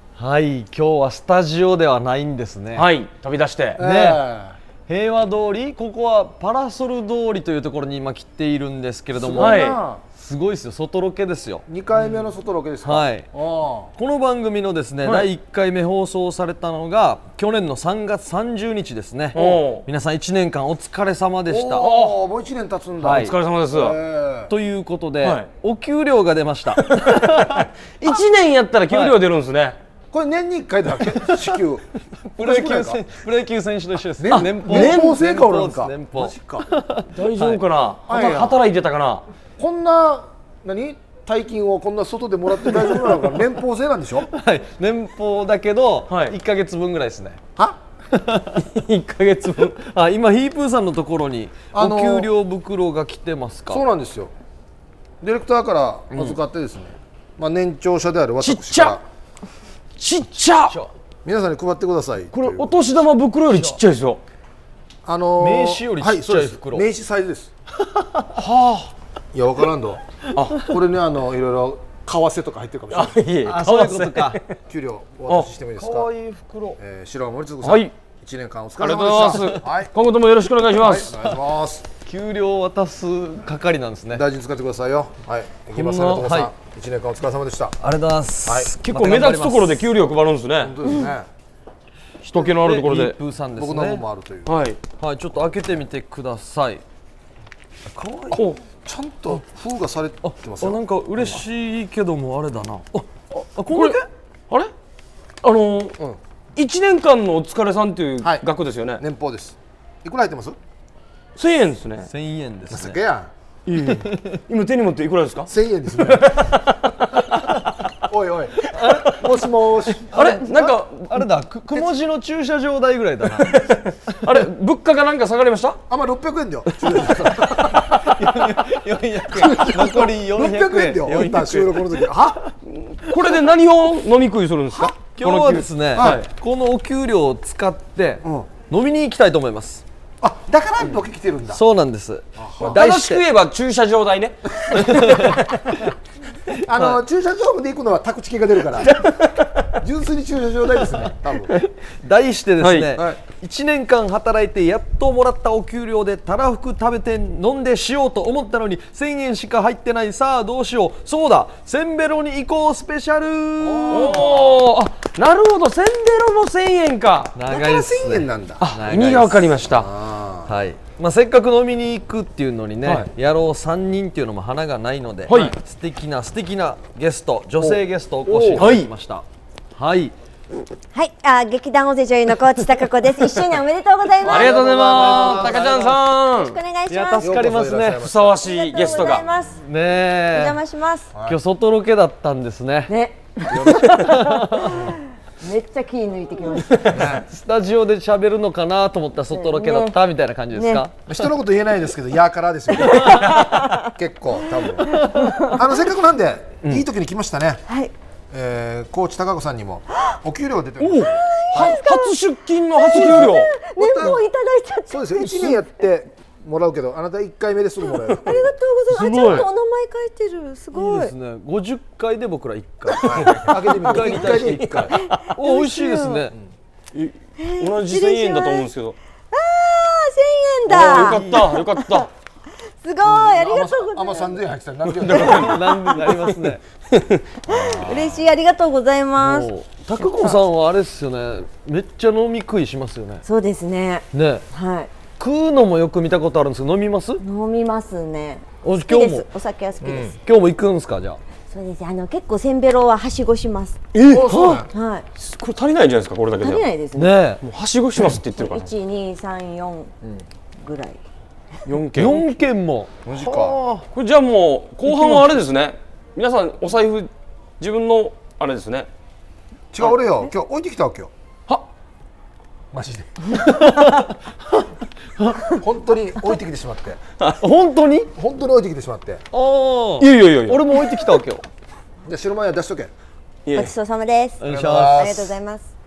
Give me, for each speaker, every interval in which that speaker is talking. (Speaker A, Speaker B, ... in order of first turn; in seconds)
Speaker A: 0.2-2.9, 3.8-4.2, 4.9-11.7, 12.8-13.3, 14.0-21.9, 23.0-23.3, 24.5-27.6, 31.3-31.6, 32.3-37.6, 44.3-47.4, 48.1-48.6, 49.7-53.8, 65.4-66.9, 73.5-74.4, 75.8-76.8, 82.0-84.2, 85.8-86.5, 87.8-89.9, 92.4-94.0, 95.0-96.8, 97.9-98.4, 100.2-104.1, 112.1-113.0, 113.9-114.4, 118.8-119.2, 120.1-123.5, 128.0-132.1, 135.0-139.8, 141.5-143.2, 144.7-145.4, 152.0-164.5, 167.4-169.7, 170.5-179.2, 179.8-180.2, 184.3-185.9, 186.9-188.0, 189.6-190.6, 191.3-192.9, 194.0-194.8, 197.3-200.9, 220.7-226.3, 230.7-231.5, 235.1-236.6, 239.2-243.2, 244.1-244.4, 245.2-247.2, 248.6-249.2, 250.2-251.2, 257.0-257.4, 262.0-263.9, 264.9-265.2, 273.5-274.1, 277.4-278.1, 279.3-281.4, 284.4-285.1
Speaker B: 2.8-3.8, 9.4-9.8, 19.4-19.9, 21.8-22.2, 23.1-24.0, 26.8-29.8, 34.3-35.2, 37.1-39.2, 46.1-46.3, 48.6-49.8, 58.4-59.0, 60.0-60.8, 62.3-64.2, 68.4-68.9, 70.3-70.6, 72.9-74.5, 77.6-77.9, 78.8-81.3, 88.8-90.8, 92.2-93.2, 94.5-94.8, 103.7-104.7, 105.4-106.0, 106.5-109.0, 111.4-112.1, 113.7-117.4, 120.1-121.2, 123.4-125.8, 132.7-136.3, 142.6-145.6, 152.6-152.9, 163.9-167.3, 168.6-169.9, 175.3-175.5, 178.6-178.9, 184.2-186.6, 188.0-189.3, 210.8-213.6, 218.9-219.5, 226.9-229.0, 230.7-232.1, 235.0-235.6, 236.9-237.2, 253.9-254.6, 255.2-256.7, 257.4-258.7, 261.7-262.2, 263.9-268.9, 280.0-280.6, 283.5-283.7
Speaker C: 3.8-4.6, 9.1-10.0, 11.7-13.9, 21.5-24.5, 30.1-31.8, 32.4-33.0, 34.2-36.6, 38.1-38.6, 39.6-44.3, 51.7-52.3, 53.7-54.3, 55.2-59.0, 61.2-62.8, 65.0-67.5, 69.3-70.0, 70.6-73.2, 74.7-76.1, 76.8-79.9, 80.8-81.8, 84.1-87.8, 90.6-91.3, 93.6-94.5, 98.3-100.8, 109.0-110.6, 112.7-113.3, 115.5-116.4, 118.1-120.2, 125.9-128.1, 129.3-132.4, 136.0-136.2, 138.2-138.5, 140.2-141.6, 142.4-142.8, 146.5-149.0, 149.8-151.5, 163.7-164.4, 167.5-168.7, 169.7-170.5, 178.3-178.8, 184.4-185.9, 187.2-188.4, 191.1-191.4, 193.5-194.0, 196.9-197.3, 201.1-207.7, 208.3-211.8, 213.8-214.2, 214.9-218.4, 223.0-224.9, 233.0-235.6, 237.5-238.1, 249.8-250.1, 254.1-254.7, 263.1-263.6, 269.7-271.1, 272.7-273.3, 275.4-277.0, 278.1-279.2, 282.1-282.9, 284.5-285.3
Speaker D: 180.9-184.6, 186.2-187.5, 188.4-189.6, 190.3-191.1, 192.9-197.1, 199.3-200.0, 200.5-200.8, 202.8-203.4, 205.2-205.6, 207.7-207.9, 211.2-212.2, 212.8-215.6, 218.2-221.1, 225.0-226.2, 227.4-228.7, 229.3-232.1, 232.8-234.4, 237.5-240.4, 243.2-244.9, 247.2-250.2, 251.5-253.8, 254.7-255.1, 256.4-257.2, 258.4-259.9, 260.6-261.0, 283.5-285.7